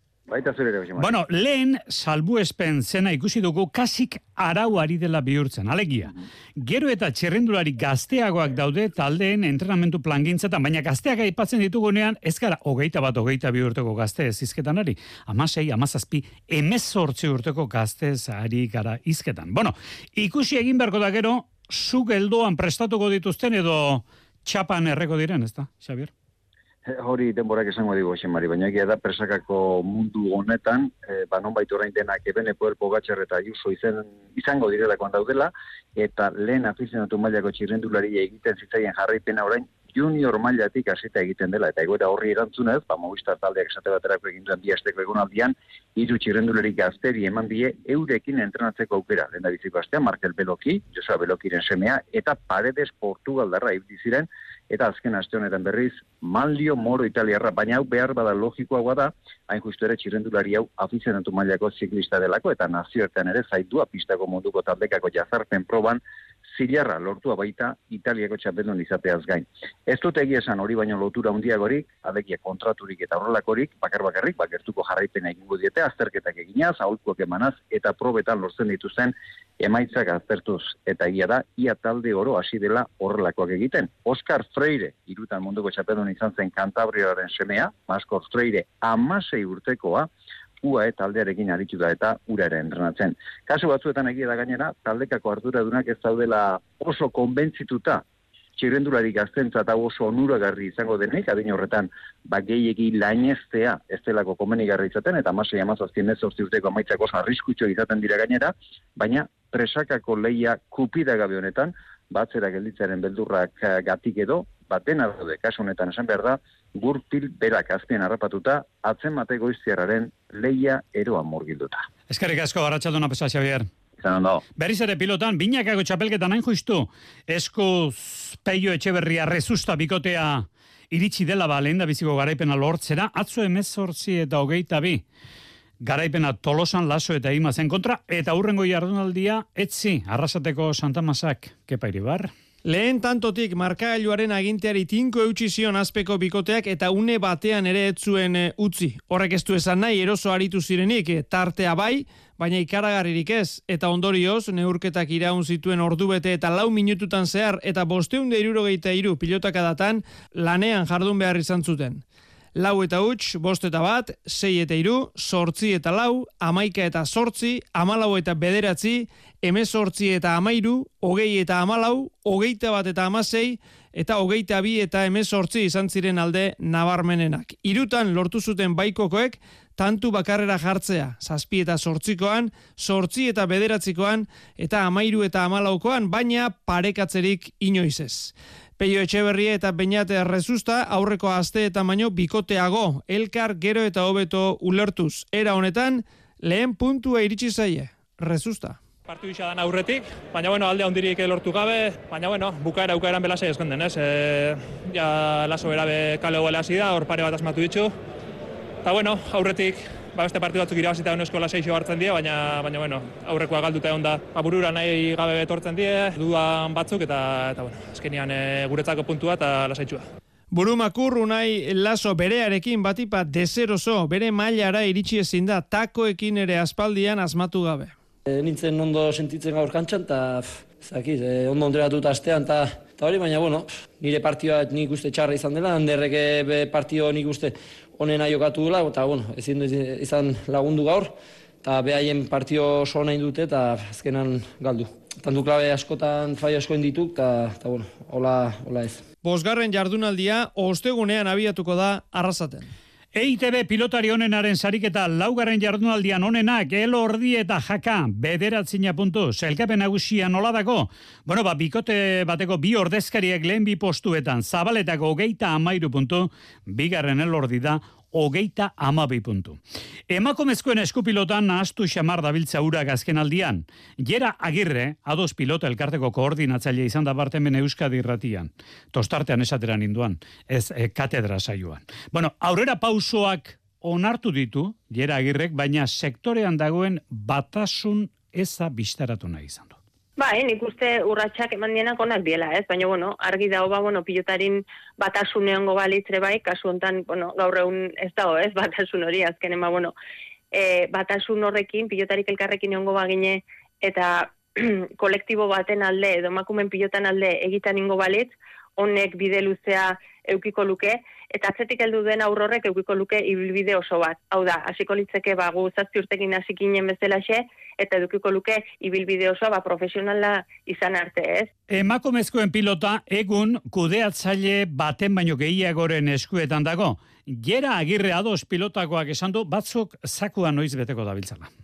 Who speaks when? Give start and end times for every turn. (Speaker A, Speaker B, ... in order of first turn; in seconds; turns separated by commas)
Speaker A: 0.3-1.1, Speaker B: 1.0-26.1, Speaker A: 26.9-90.1, Speaker A: 90.6-98.0, Speaker A: 98.6-121.9, Speaker B: 122.1-123.7, Speaker A: 124.0-124.4, Speaker B: 124.6-135.0, Speaker B: 135.8-142.3, Speaker C: 142.7-162.0, Speaker C: 162.6-198.8, Speaker D: 199.1-207.9, Speaker D: 208.8-220.1, Speaker C: 220.5-227.9, Speaker E: 228.3-249.0, Speaker C: 249.2-252.7, Speaker B: 253.2-289.8, Speaker F: 290.2-299.9, Speaker F: 300.5-321.5, Speaker B: 321.7-331.5